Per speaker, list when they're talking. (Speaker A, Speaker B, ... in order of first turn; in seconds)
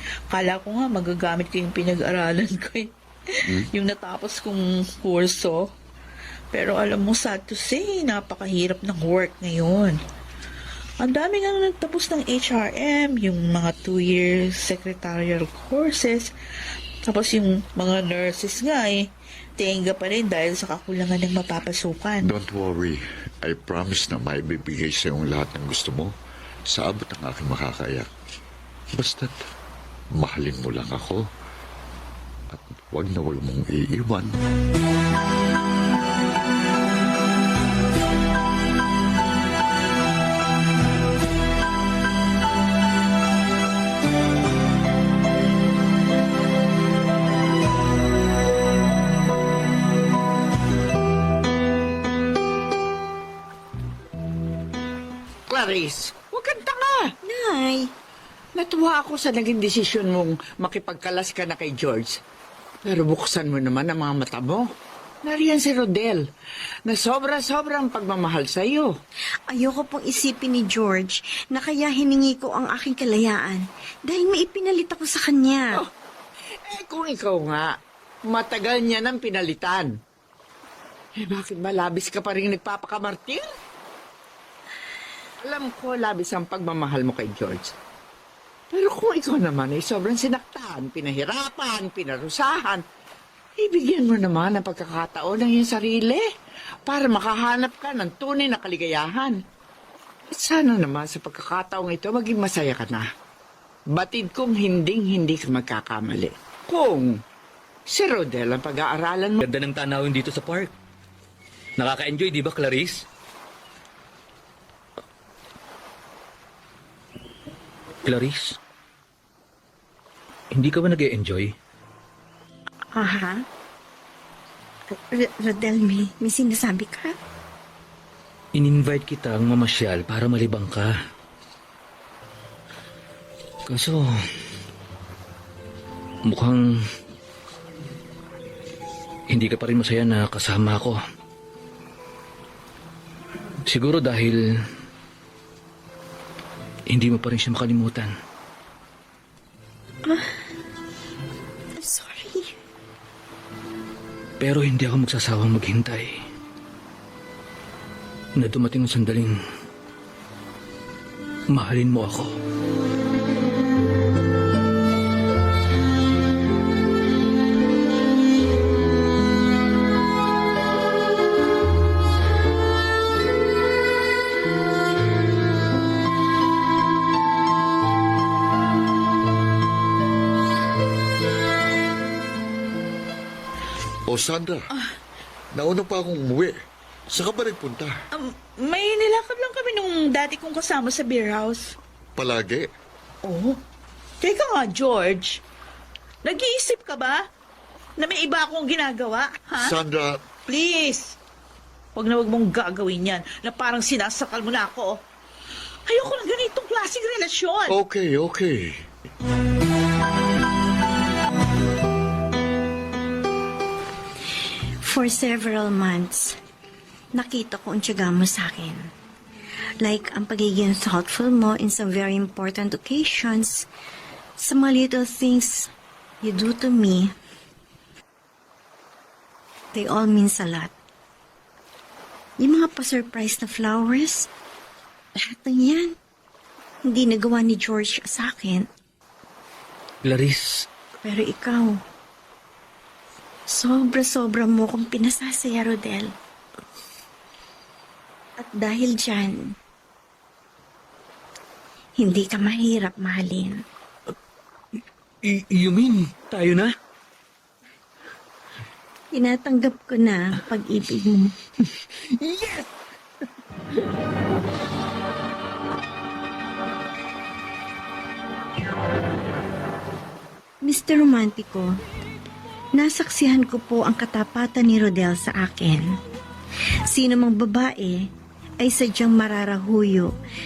Speaker A: 0.3-5.7, 6.5-10.0, 11.0-16.3, 17.1-22.3, 188.1-191.7, 193.2-193.6, 194.2-195.4, 196.2-197.2, 198.0-199.8, 200.5-201.2, 202.0-205.0, 205.9-207.8
Speaker B: 22.2-26.1, 26.7-28.1, 28.9-29.4, 30.2-31.3, 32.5-34.4, 184.1-184.7, 185.5-186.6, 187.1-188.0, 192.2-192.7, 199.6-200.2, 207.7-208.8
Speaker C: 55.5-57.1, 58.6-62.2, 62.9-64.7, 65.2-66.2, 66.9-68.9, 76.6-77.7, 78.3-79.9, 81.2-83.5, 85.4-87.7, 88.7-92.8, 93.6-96.3, 96.9-99.4, 100.3-103.1, 103.9-107.2, 107.9-109.4
Speaker D: 57.2-57.9, 69.5-75.8, 122.9-123.5, 124.9-127.2, 150.1-150.4, 151.8-152.6, 214.8-216.4, 217.1-218.9, 219.8-223.7, 224.4-225.7, 226.2-227.1, 229.7-230.7, 232.4-234.3, 235.2-236.0, 236.8-238.7, 241.0-241.8, 243.5-246.1, 248.4-249.6, 252.0-253.6, 259.1-261.4, 270.6-271.8, 272.7-275.9, 276.9-278.1, 278.6-280.1
Speaker E: 109.4-110.7, 111.8-113.0, 118.0-118.6, 120.5-121.5, 128.6-130.9, 133.7-134.1, 136.2-136.8, 139.3-141.0, 143.7-144.4, 146.9-148.1, 154.4-156.2, 158.4-159.3, 161.5-162.4, 240.0-240.7, 255.2-256.8, 261.8-262.7